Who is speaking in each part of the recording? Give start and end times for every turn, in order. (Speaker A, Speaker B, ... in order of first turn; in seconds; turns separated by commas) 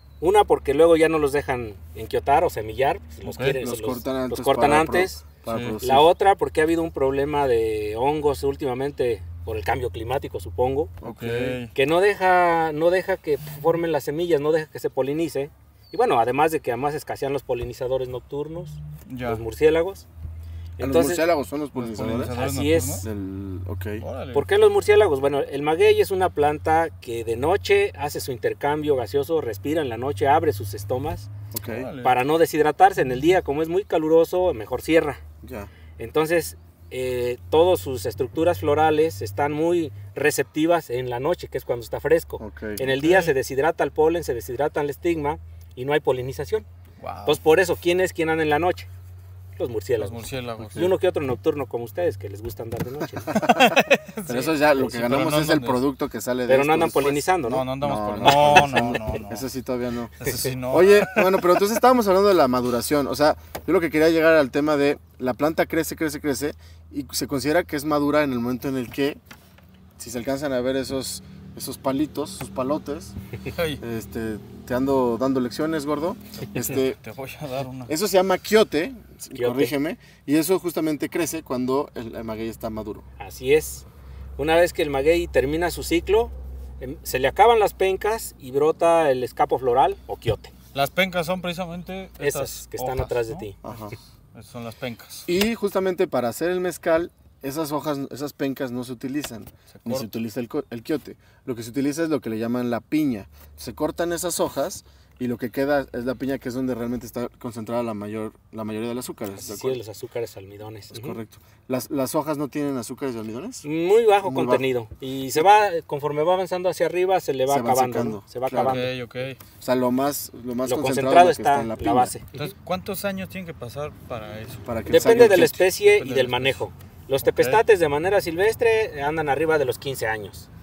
Speaker A: 0.2-5.2, Speaker B: 3.2-3.6, Speaker C: 3.6-6.1, Speaker B: 5.5-5.8, Speaker A: 5.8-10.9, Speaker C: 11.0-11.6, Speaker B: 11.0-11.7, Speaker A: 11.7-20.1, Speaker B: 19.1-19.4, Speaker A: 20.8-21.2, Speaker C: 20.8-22.3, Speaker B: 21.7-23.1, Speaker A: 22.4-23.1, Speaker C: 23.0-24.0, Speaker B: 24.0-24.5, Speaker A: 24.3-31.3, Speaker C: 31.5-31.9, Speaker B: 31.6-32.2, Speaker A: 32.0-35.2, Speaker C: 35.4-35.7, Speaker A: 36.0-46.6, Speaker C: 42.4-42.8, Speaker B: 42.9-43.3, Speaker B: 47.0-47.4, Speaker A: 47.2-48.9, Speaker A: 49.6-53.5, Speaker B: 50.0-50.9, Speaker C: 50.6-50.9, Speaker C: 53.2-69.2, Speaker B: 53.3-55.8, Speaker A: 56.5-57.6, Speaker B: 57.4-59.5, Speaker B: 60.2-61.6, Speaker C: 70.0-73.2, Speaker B: 73.5-73.8, Speaker C: 73.8-77.0, Speaker B: 76.4-77.9, Speaker C: 77.8-83.0, Speaker A: 79.3-79.7, Speaker A: 83.2-83.8, Speaker A: 84.4-90.5, Speaker B: 90.7-93.5, Speaker A: 92.2-93.6, Speaker C: 93.6-94.0, Speaker B: 94.3-95.3, Speaker C: 95.3-109.8, Speaker B: 99.7-100.1, Speaker A: 109.3-111.2, Speaker C: 110.9-113.7, Speaker A: 113.6-118.9, Speaker C: 114.2-114.7, Speaker C: 117.5-118.8, Speaker B: 118.5-119.4, Speaker C: 119.6-122.1, Speaker A: 120.6-122.5, Speaker B: 122.3-126.6, Speaker C: 124.7-125.6, Speaker A: 124.9-130.5, Speaker B: 127.2-127.6